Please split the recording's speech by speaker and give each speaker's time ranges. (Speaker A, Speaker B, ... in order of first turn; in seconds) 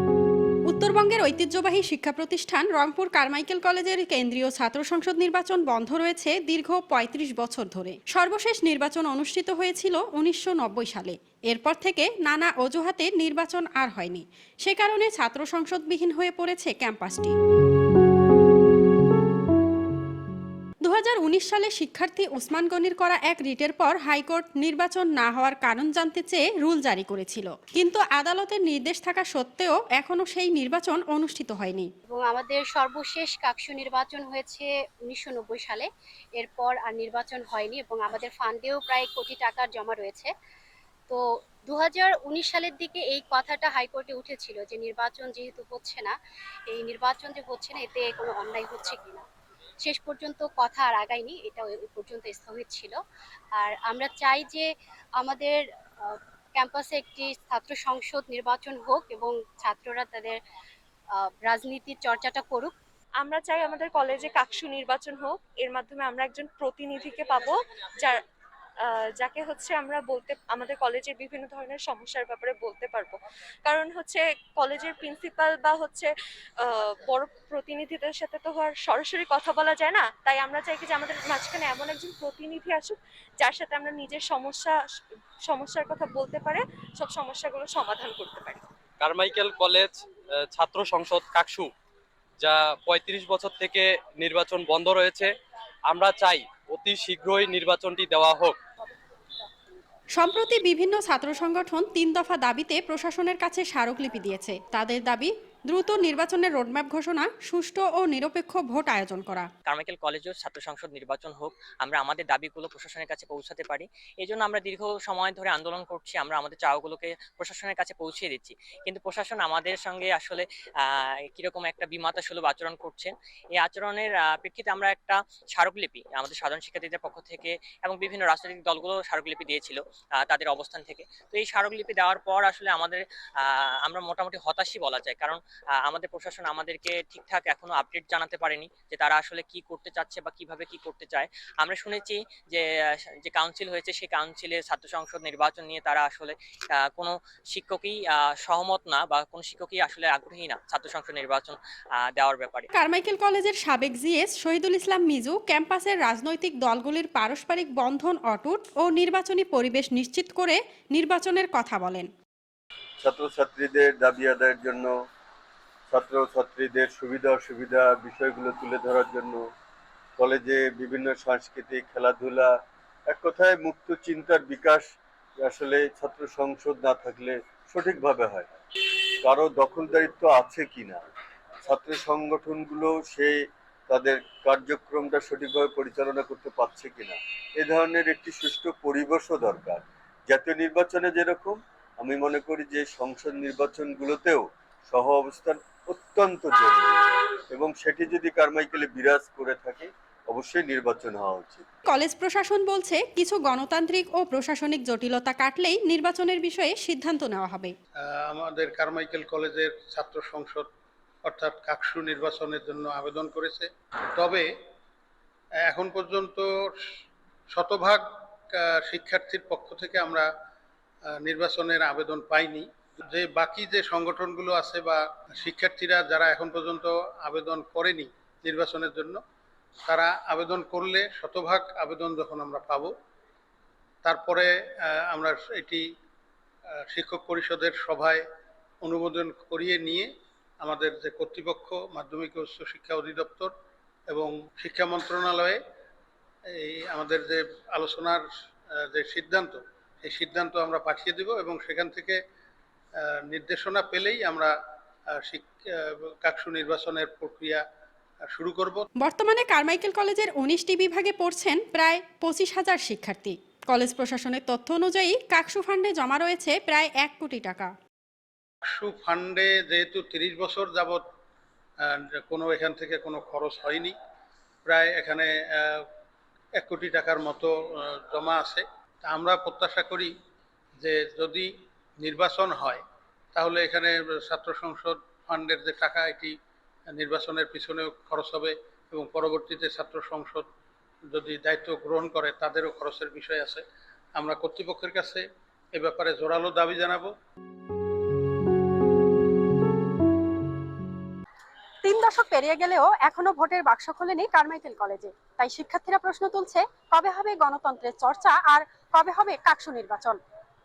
Speaker A: 0.7-17.3, 20.8-31.9, 100.2-109.5, 152.7-162.1, 201.9-207.7, 259.0-267.7, 301.8-310.2
Speaker B: 32.1-40.3, 41.1-46.1, 46.7-49.2, 49.8-53.0, 53.5-60.4, 61.1-62.7
Speaker C: 63.2-68.2, 68.8-76.1, 76.6-84.8, 85.4-88.6
Speaker D: 89.0-91.7, 92.4-95.3, 95.8-98.6
Speaker E: 109.6-152.7
Speaker F: 163.0-164.9, 165.9-169.4, 170.2-172.5, 173.1-178.5, 179.2-181.0, 181.6-201.7
Speaker G: 208.3-210.6, 211.3-213.7, 215.7-216.4, 217.5-218.0, 218.8-220.2, 221.2-229.2, 229.9-232.9, 234.0-234.5, 235.1-235.8, 236.9-238.2, 238.8-240.1, 240.6-243.5, 244.1-245.6, 246.6-248.2, 248.9-252.2, 253.3-254.5, 256.2-257.6, 258.4-258.8, 268.8-271.0, 272.3-273.9, 274.7-275.3, 276.6-277.5, 278.1-280.1, 280.8-281.4, 282.0-282.8, 283.3-286.3, 287.0-290.4, 291.1-293.6, 294.2-295.2, 295.8-297.1